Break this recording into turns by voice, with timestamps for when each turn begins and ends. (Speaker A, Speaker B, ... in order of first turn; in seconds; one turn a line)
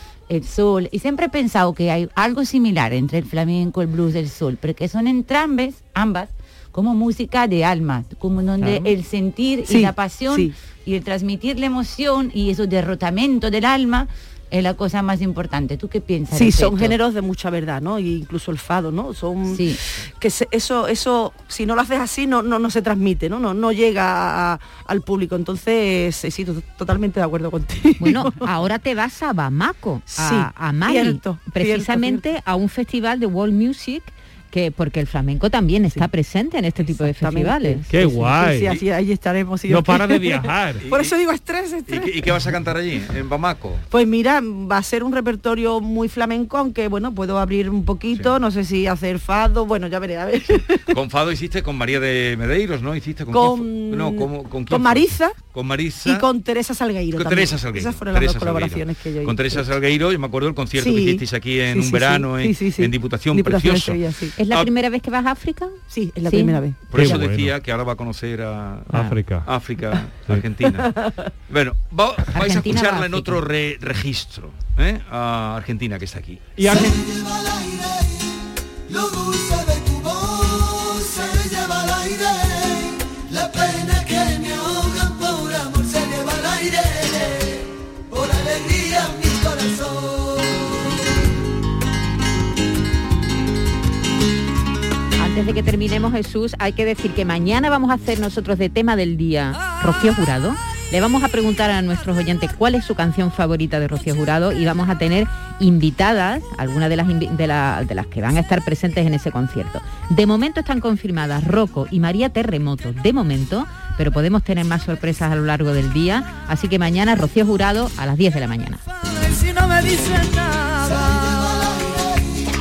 Speaker A: 0.3-17.0
Speaker B: 8.6-8.9
Speaker B: 9.7-10.6
Speaker B: 16.3-28.5
Speaker A: 19.5-19.8
Speaker C: 28.0-37.8
Speaker B: 30.1-32.2
Speaker B: 36.8-42.5
Speaker D: 37.9-38.8
Speaker D: 39.7-40.8
Speaker E: 40.8-41.2
Speaker E: 41.9-43.8
Speaker B: 43.9-51.0
Speaker E: 50.9-56.3
Speaker B: 53.3-55.4
Speaker B: 56.0-59.7
Speaker E: 57.1-64.7
Speaker B: 60.8-64.4
Speaker C: 64.4-66.6
Speaker B: 65.9-67.1
Speaker E: 66.9-70.9
Speaker D: 66.9-67.5
Speaker D: 68.9-69.5
Speaker B: 70.8-71.1
Speaker E: 71.5-76.5
Speaker C: 72.3-73.4
Speaker D: 76.6-77.0
Speaker F: 76.9-78.3
Speaker F: 78.9-90.7
Speaker C: 95.2-118.8
Speaker F: 119.0-122.4